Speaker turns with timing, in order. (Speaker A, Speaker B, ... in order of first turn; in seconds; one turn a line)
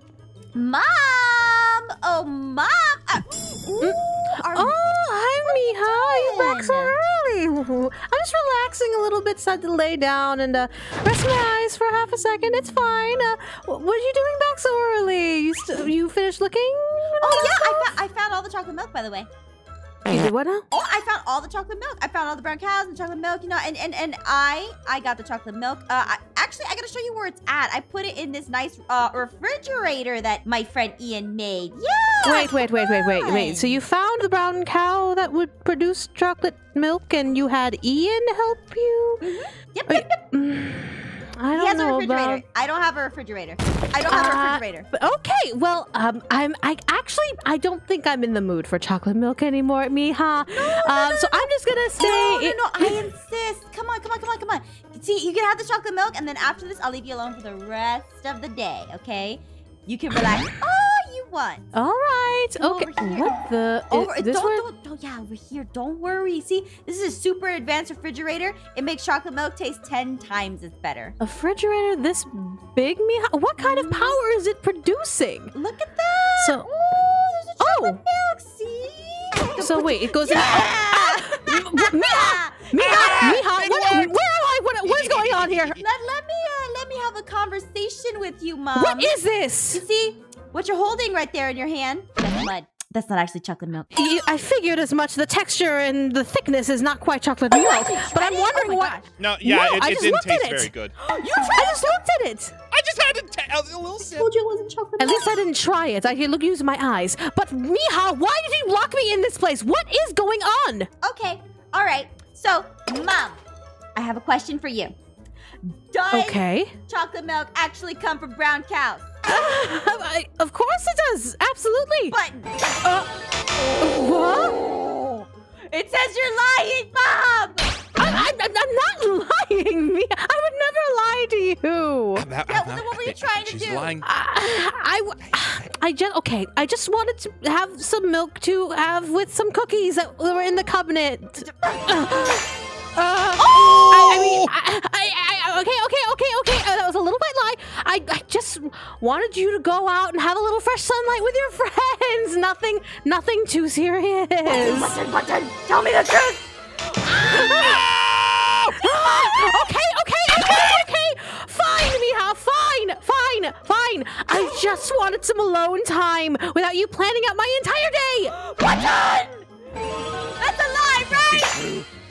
Speaker A: 0.5-4.8
Speaker B: 3.8-17.9
Speaker A: 5.4-7.0
Speaker A: 17.2-19.3
Speaker B: 20.1-20.6
Speaker A: 20.7-33.8
Speaker B: 32.2-39.3
Speaker A: 39.2-40.2
Speaker B: 39.9-42.4
Speaker A: 41.5-44.9
Speaker B: 44.1-53.0
Speaker A: 50.5-61.7
Speaker B: 61.7-64.7
Speaker A: 62.5-63.4
Speaker A: 63.9-71.2
Speaker B: 71.2-75.5
Speaker A: 73.6-74.2
Speaker A: 75.5-83.4
Speaker B: 76.4-76.7
Speaker B: 77.6-78.0
Speaker B: 79.6-85.8
Speaker C: 82.7-84.2
Speaker C: 84.8-85.8
Speaker A: 85.7-93.9
Speaker B: 88.7-89.8
Speaker B: 93.9-100.7
Speaker A: 97.5-99.1
Speaker C: 99.1-100.9
Speaker A: 101.0-101.8
Speaker B: 101.5-102.5
Speaker C: 102.7-104.3
Speaker A: 104.1-105.2
Speaker B: 104.9-110.9
Speaker A: 111.0-113.4
Speaker A: 113.9-114.9
Speaker A: 115.7-119.3
Speaker B: 116.1-116.7
Speaker B: 119.2-122.1
Speaker A: 122.1-122.6
Speaker A: 123.6-127.8
Speaker B: 123.8-124.6
Speaker B: 128.0-132.3
Speaker C: 132.1-134.1
Speaker A: 132.5-134.0
Speaker B: 134.0-154.9
Speaker A: 141.4-142.3
Speaker C: 143.5-144.5
Speaker A: 154.4-157.8
Speaker B: 157.3-157.8
Speaker C: 157.5-158.7
Speaker B: 158.7-168.3
Speaker A: 158.8-159.7
Speaker A: 168.3-169.4
Speaker A: 170.4-171.5
Speaker C: 171.0-171.9